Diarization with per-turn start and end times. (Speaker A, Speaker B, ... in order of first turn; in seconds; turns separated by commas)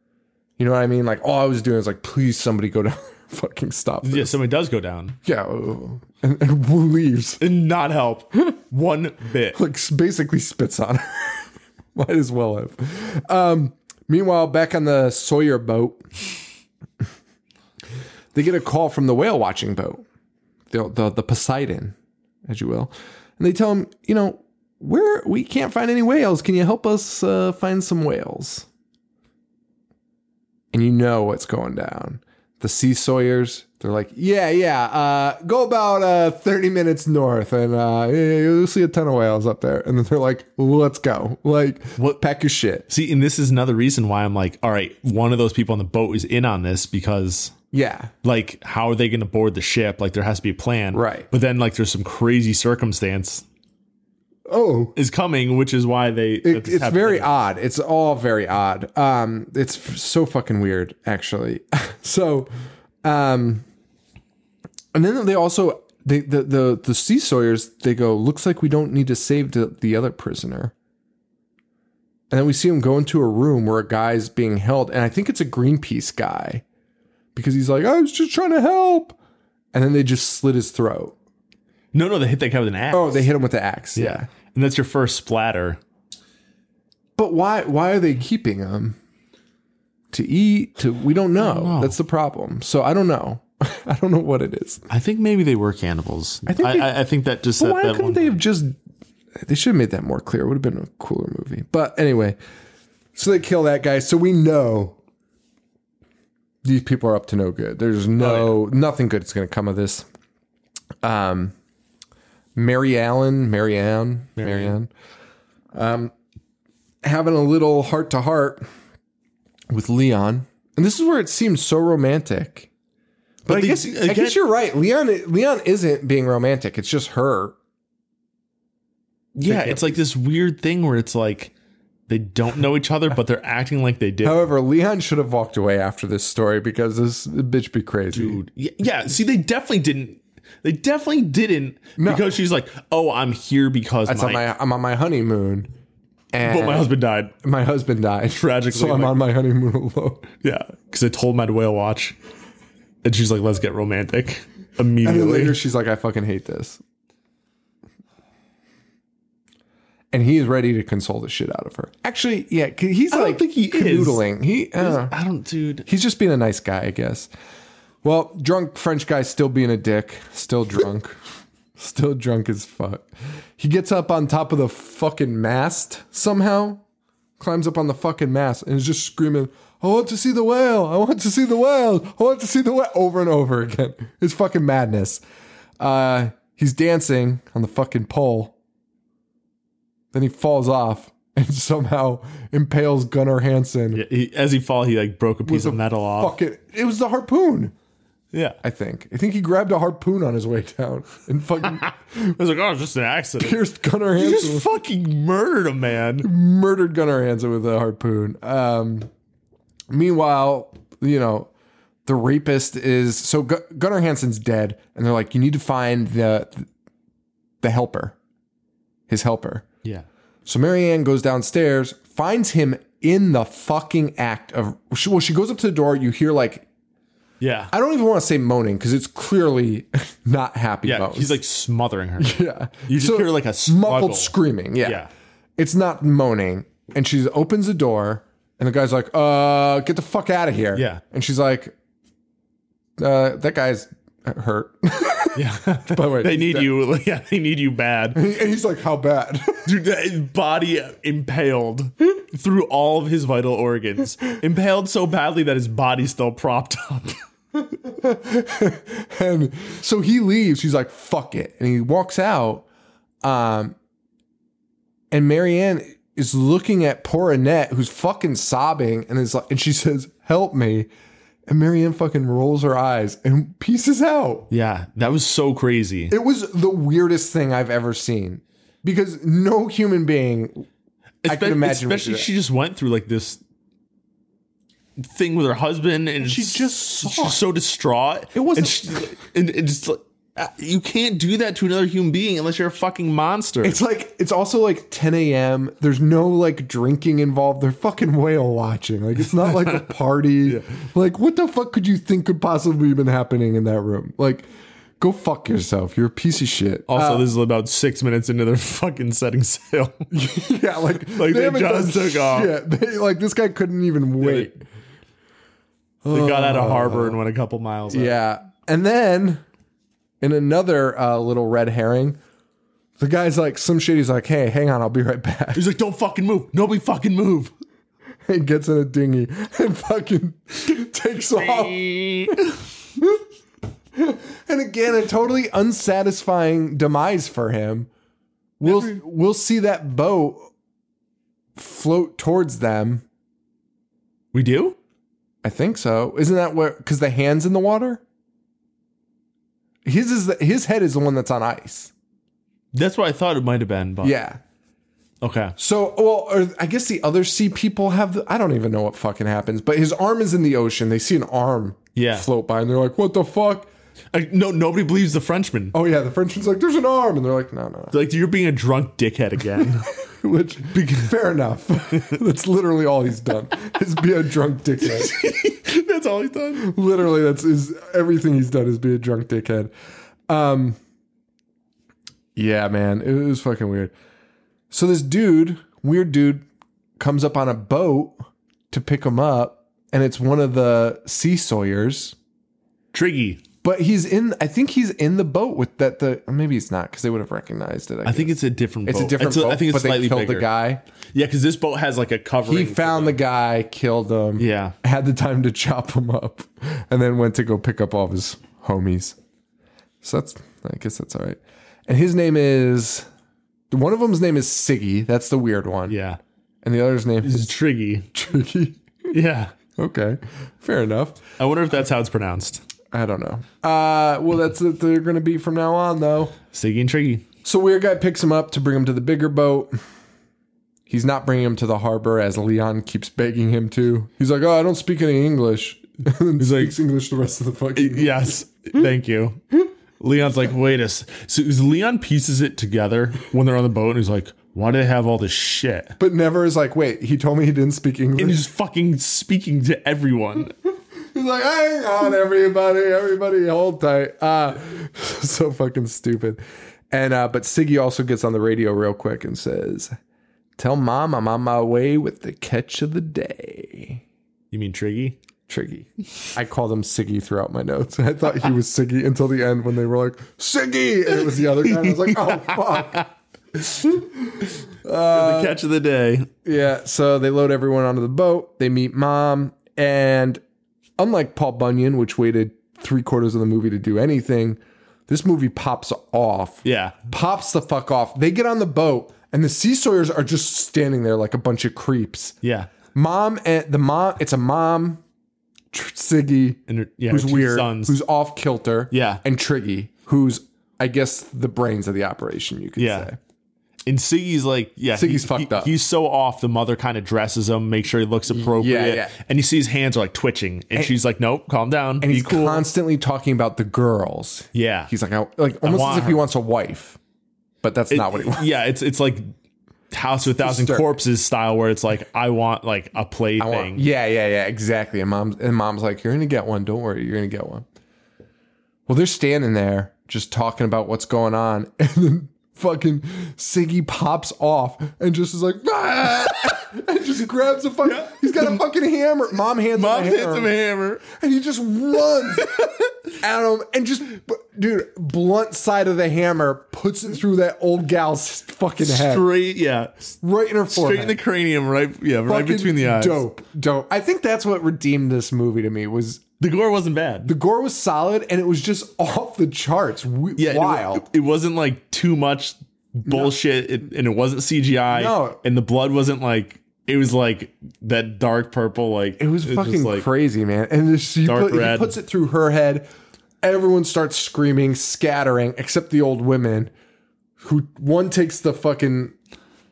Speaker A: 0.6-4.3, Speaker B: 4.0-5.2, Speaker A: 5.2-7.4, Speaker B: 7.4-9.6, Speaker A: 9.5-16.0, Speaker A: 18.3-20.0, Speaker A: 20.7-28.7, Speaker A: 30.7-42.9, Speaker B: 42.9-47.5, Speaker A: 47.7-48.1, Speaker B: 48.2-53.4, Speaker A: 50.9-51.3, Speaker A: 54.5-54.9, Speaker B: 54.9-57.3, Speaker A: 56.4-62.5, Speaker A: 63.0-63.6, Speaker A: 64.9-70.7, Speaker A: 72.3-76.6, Speaker A: 77.3-79.2, Speaker A: 79.7-81.1, Speaker B: 81.9-83.3, Speaker A: 82.9-84.3, Speaker B: 84.0-85.8, Speaker A: 87.2-89.0, Speaker A: 90.1-94.8, Speaker B: 91.4-92.0, Speaker B: 94.9-98.4, Speaker A: 96.5-97.0, Speaker A: 97.5-98.8, Speaker A: 99.4-102.4, Speaker A: 103.2-105.0, Speaker A: 106.6-110.1, Speaker B: 108.2-108.5, Speaker A: 111.0-111.5, Speaker A: 112.5-114.9, Speaker B: 114.4-114.7, Speaker A: 115.7-116.1, Speaker A: 117.0-118.7, Speaker A: 119.7-122.7, Speaker A: 123.4-127.6, Speaker B: 123.5-124.4, Speaker B: 129.3-131.5, Speaker A: 129.4-130.0, Speaker B: 132.1-134.4, Speaker A: 134.2-138.4, Speaker B: 138.1-144.4, Speaker A: 142.0-142.3, Speaker A: 144.1-145.7, Speaker A: 146.3-150.3, Speaker B: 146.4-147.3, Speaker B: 148.3-149.2, Speaker B: 150.4-152.2, Speaker B: 153.0-155.6, Speaker A: 155.0-156.8, Speaker A: 160.1-165.1, Speaker B: 163.1-164.2, Speaker B: 164.8-165.9, Speaker A: 165.8-167.3, Speaker A: 168.0-171.2, Speaker A: 171.8-176.8, Speaker A: 177.4-185.2, Speaker A: 185.8-188.5, Speaker A: 190.1-194.0, Speaker B: 193.9-196.3, Speaker A: 195.4-197.7, Speaker A: 198.6-202.3, Speaker B: 201.6-203.6, Speaker A: 203.4-204.7, Speaker B: 204.1-206.3, Speaker A: 206.2-209.1, Speaker A: 209.9-211.5, Speaker A: 212.1-216.7, Speaker A: 217.6-218.2, Speaker A: 219.1-219.6, Speaker A: 220.4-226.7, Speaker B: 227.4-227.7, Speaker A: 227.7-231.4, Speaker B: 230.8-235.1, Speaker A: 232.2-235.1, Speaker A: 235.6-241.7, Speaker B: 240.8-241.0, Speaker A: 243.0-245.4, Speaker B: 245.3-248.2, Speaker A: 245.9-246.7, Speaker A: 248.1-249.7, Speaker B: 249.6-257.2, Speaker A: 257.6-262.6, Speaker A: 263.2-263.8, Speaker A: 265.1-270.9, Speaker A: 271.5-274.5, Speaker B: 274.5-276.1, Speaker A: 276.1-280.7, Speaker B: 281.2-283.4, Speaker A: 281.2-282.3, Speaker B: 285.0-293.8, Speaker A: 286.2-287.4, Speaker A: 288.3-289.0, Speaker A: 293.6-307.3, Speaker B: 299.6-299.9, Speaker B: 306.9-310.1, Speaker A: 310.1-314.6, Speaker B: 311.1-312.5, Speaker B: 314.2-314.5, Speaker A: 316.0-317.2, Speaker B: 316.1-318.2, Speaker A: 317.9-319.4, Speaker A: 320.2-322.2, Speaker A: 323.0-325.6, Speaker B: 325.5-327.5, Speaker A: 328.2-332.4, Speaker B: 331.4-332.5, Speaker A: 333.0-333.2, Speaker A: 333.9-337.9, Speaker A: 338.6-340.5, Speaker B: 338.6-338.9, Speaker A: 341.6-343.0, Speaker B: 344.3-344.8, Speaker A: 345.4-348.0, Speaker A: 349.8-351.9, Speaker B: 352.7-354.1, Speaker A: 354.0-354.4, Speaker B: 355.2-355.6, Speaker A: 355.6-363.7, Speaker B: 361.9-362.3, Speaker B: 364.1-365.7, Speaker A: 365.7-367.9, Speaker B: 367.9-369.9, Speaker A: 369.6-375.1, Speaker B: 370.7-371.1, Speaker B: 374.8-376.7, Speaker A: 376.6-379.7, Speaker A: 380.3-380.8, Speaker A: 382.4-383.9, Speaker A: 384.7-386.4, Speaker A: 387.0-392.1, Speaker B: 392.9-393.4, Speaker A: 393.6-398.3, Speaker B: 398.1-400.5, Speaker A: 398.8-400.8, Speaker B: 401.1-403.2, Speaker A: 402.5-409.1, Speaker B: 404.4-404.7, Speaker A: 410.0-413.1, Speaker A: 413.7-416.0, Speaker B: 415.9-416.2, Speaker A: 416.6-417.5, Speaker B: 417.2-418.1, Speaker A: 418.1-419.1, Speaker B: 419.1-419.5, Speaker A: 419.8-421.2, Speaker B: 421.4-422.6, Speaker A: 422.9-426.4, Speaker B: 426.5-427.2, Speaker A: 427.4-429.7, Speaker A: 430.9-438.4, Speaker B: 436.4-436.8, Speaker B: 437.7-439.4, Speaker B: 440.0-445.9, Speaker A: 446.0-448.4, Speaker B: 448.2-450.5, Speaker A: 451.1-459.9, Speaker A: 460.6-464.0, Speaker B: 464.5-465.2, Speaker A: 465.5-473.1, Speaker B: 471.8-473.0, Speaker A: 473.7-475.6, Speaker B: 475.1-476.3, Speaker A: 476.4-480.4, Speaker A: 481.0-492.3, Speaker B: 486.6-487.0, Speaker B: 492.4-492.7, Speaker A: 492.9-495.0, Speaker A: 495.7-503.2, Speaker B: 496.7-498.0, Speaker B: 498.9-499.2, Speaker B: 502.8-503.1, Speaker B: 503.9-512.6, Speaker A: 504.9-505.7, Speaker A: 508.3-509.1, Speaker A: 512.0-517.0, Speaker B: 514.5-514.9, Speaker B: 515.6-516.2, Speaker A: 517.6-518.4, Speaker B: 517.9-519.3, Speaker B: 519.9-523.8, Speaker A: 520.4-521.0, Speaker A: 523.4-527.6, Speaker A: 528.9-549.2, Speaker B: 537.8-538.5, Speaker B: 539.7-541.0, Speaker B: 548.8-550.1, Speaker A: 550.2-551.2, Speaker B: 550.7-553.2, Speaker A: 552.2-556.2, Speaker B: 556.4-557.3, Speaker A: 557.2-561.0, Speaker B: 560.4-570.1, Speaker A: 563.0-563.3, Speaker A: 564.9-565.4, Speaker A: 569.2-572.9, Speaker B: 571.2-572.0, Speaker A: 573.4-576.7, Speaker A: 577.4-579.1